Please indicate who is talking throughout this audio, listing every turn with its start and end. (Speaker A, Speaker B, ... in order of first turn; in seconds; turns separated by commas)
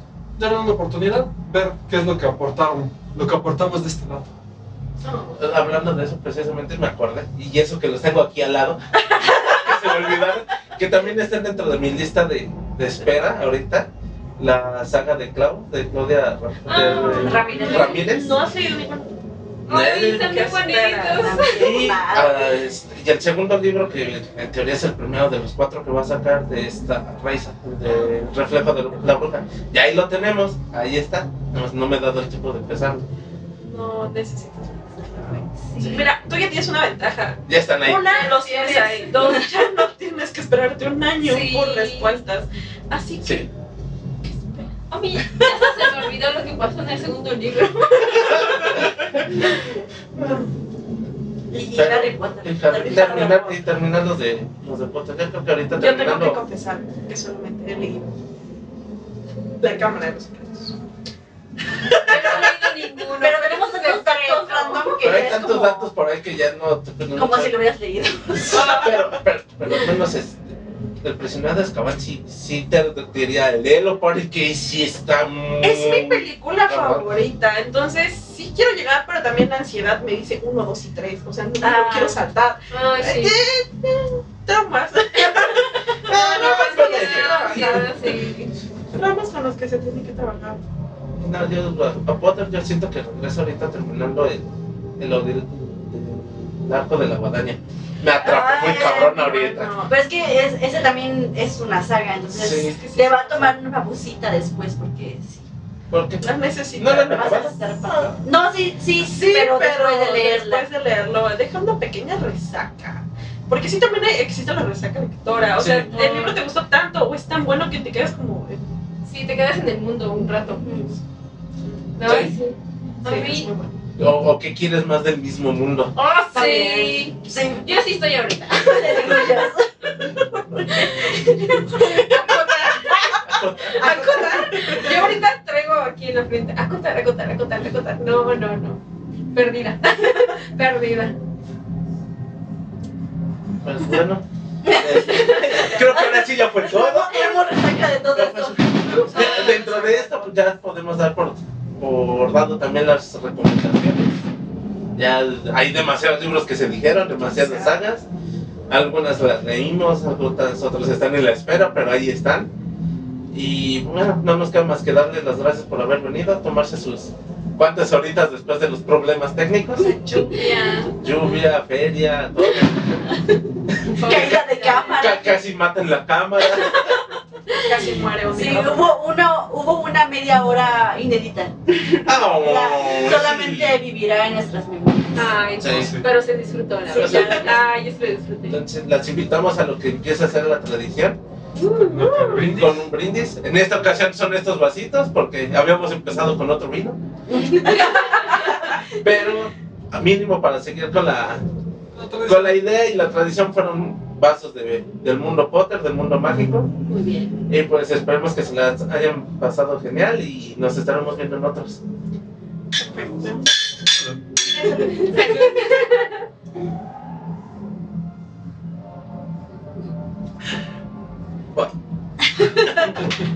Speaker A: 0.4-4.3, Speaker B: 5.1-5.3, Speaker C: 5.3-18.4, Speaker D: 16.7-18.0, Speaker B: 16.8-19.1, Speaker E: 16.9-18.2, Speaker C: 19.7-20.4, Speaker D: 19.7-21.9, Speaker B: 20.1-21.8, Speaker E: 21.2-22.6, Speaker C: 21.5-33.0, Speaker B: 33.6-43.5, Speaker D: 35.7-36.1, Speaker C: 37.5-38.2, Speaker D: 37.8-39.4, Speaker D: 41.2-42.2, Speaker C: 43.2-43.5, Speaker B: 44.2-44.7, Speaker D: 44.9-48.8, Speaker C: 48.9-49.2, Speaker C: 50.2-50.5, Speaker E: 51.5-53.6, Speaker C: 51.7-56.4, Speaker B: 55.8-58.1, Speaker B: 59.6-60.8, Speaker B: 61.7-62.4, Speaker D: 62.0-65.0, Speaker E: 63.2-65.9, Speaker C: 65.0-67.6, Speaker E: 67.1-68.9, Speaker C: 68.3-77.1, Speaker B: 68.5-69.2, Speaker B: 75.6-88.2, Speaker E: 81.6-82.2, Speaker D: 82.7-83.4, Speaker C: 86.1-87.9, Speaker D: 86.1-88.5, Speaker B: 88.9-90.6, Speaker C: 91.2-99.7, Speaker E: 98.2-105.5, Speaker B: 98.5-99.9, Speaker C: 102.3-102.8, Speaker B: 102.7-103.5, Speaker C: 105.9-108.2, Speaker B: 106.2-107.4, Speaker E: 107.1-110.7, Speaker B: 109.0-118.7, Speaker C: 115.6-116.0, Speaker D: 116.0-116.3, Speaker D: 119.0-120.6, Speaker E: 120.5-121.0, Speaker B: 121.7-122.2, Speaker D: 122.0-123.5, Speaker C: 122.0-122.3, Speaker B: 123.0-123.8, Speaker C: 124.0-126.0, Speaker D: 126.0-129.5, Speaker E: 126.3-127.7, Speaker E: 128.6-133.1, Speaker D: 130.7-138.8, Speaker C: 133.2-135.1, Speaker B: 133.8-134.8, Speaker D: 139.3-141.2, Speaker C: 143.6-147.5, Speaker E: 144.6-149.4, Speaker C: 148.1-154.2, Speaker B: 148.9-150.3, Speaker C: 155.0-158.1, Speaker B: 157.2-157.8, Speaker C: 158.7-162.5, Speaker C: 163.3-170.0, Speaker E: 169.9-170.5, Speaker B: 169.9-171.0, Speaker D: 170.3-170.9, Speaker C: 170.9-173.1, Speaker C: 173.7-174.3, Speaker D: 174.0-175.0, Speaker E: 174.0-175.4, Speaker B: 174.1-174.8, Speaker C: 175.0-177.0, Speaker B: 177.6-178.9, Speaker E: 178.3-181.5, Speaker D: 181.8-182.0, Speaker C: 182.1-183.8, Speaker E: 182.4-185.4, Speaker D: 185.2-188.6, Speaker C: 185.6-185.9, Speaker A: 185.6-186.1, Speaker E: 186.9-187.5, Speaker C: 186.9-187.6, Speaker B: 187.1-187.4, Speaker C: 188.5-191.2, Speaker D: 191.6-192.5, Speaker A: 191.8-192.9, Speaker C: 192.5-197.0, Speaker E: 197.3-198.5, Speaker D: 197.5-198.6, Speaker C: 198.6-201.4, Speaker A: 201.9-202.6, Speaker C: 202.3-206.7, Speaker D: 206.9-207.3, Speaker C: 207.5-211.8, Speaker B: 212.8-213.5, Speaker B: 214.5-215.5, Speaker D: 214.6-216.2, Speaker E: 215.1-215.3, Speaker E: 222.2-223.0